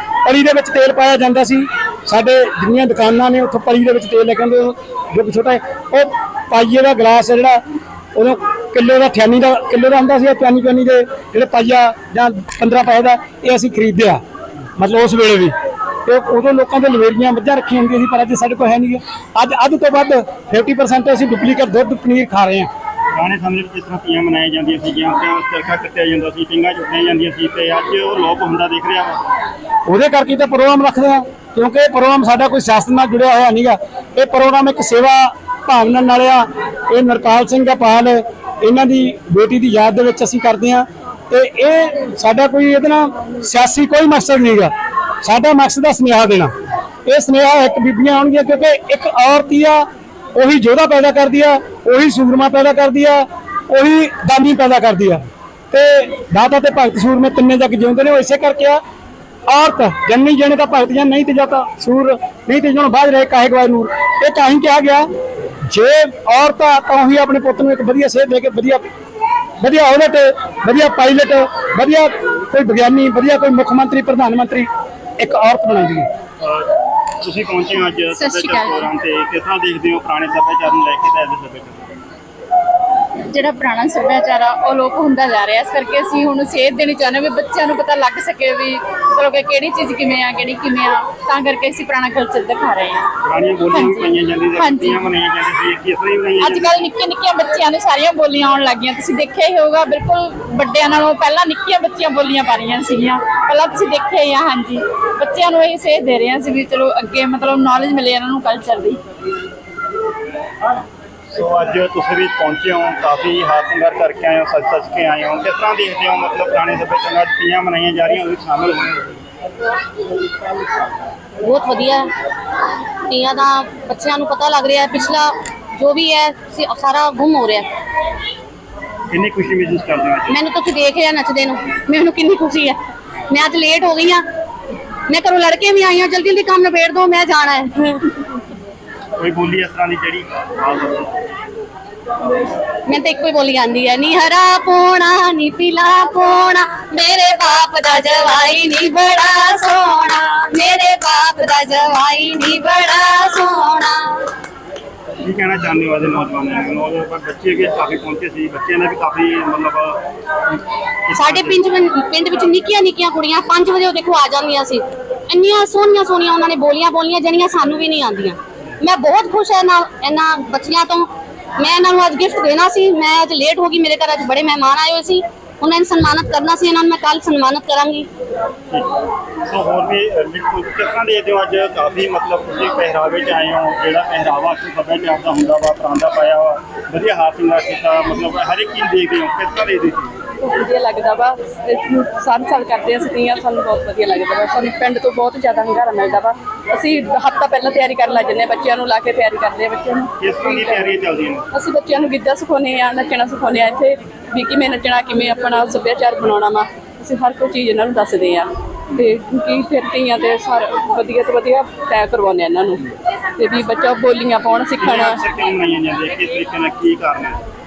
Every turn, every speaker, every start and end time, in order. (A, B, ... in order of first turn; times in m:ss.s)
0:00.2-0:07.6 A
0:08.1-0:14.2 A
0:14.8-0:15.5 A
0:16.0-0:22.7 A
0:23.1-0:29.2 B
0:29.8-0:46.5 A
0:47.0-0:58.8 A
0:59.5-1:05.1 A
1:05.6-1:08.8 A
1:09.6-1:16.1 A
1:16.4-1:21.9 B
1:18.1-1:18.8 C
1:23.3-1:33.0 C
1:33.2-1:36.8 B
1:33.7-1:35.1 C
1:36.4-1:49.0 C
1:51.3-1:59.2 B
2:01.4-2:02.1 D
2:03.1-2:07.7 D
2:09.1-2:10.4 B
2:10.3-2:12.8 D
2:13.3-2:14.2 D
2:15.1-2:18.2 D
2:19.2-2:21.1 B
2:22.8-2:34.2 D
2:35.2-2:41.6 B
2:41.2-2:58.1 D
2:59.4-3:10.1 B
3:10.4-3:20.9 E
3:20.2-3:21.4 B
3:21.5-3:35.2 E
3:34.8-3:37.4 B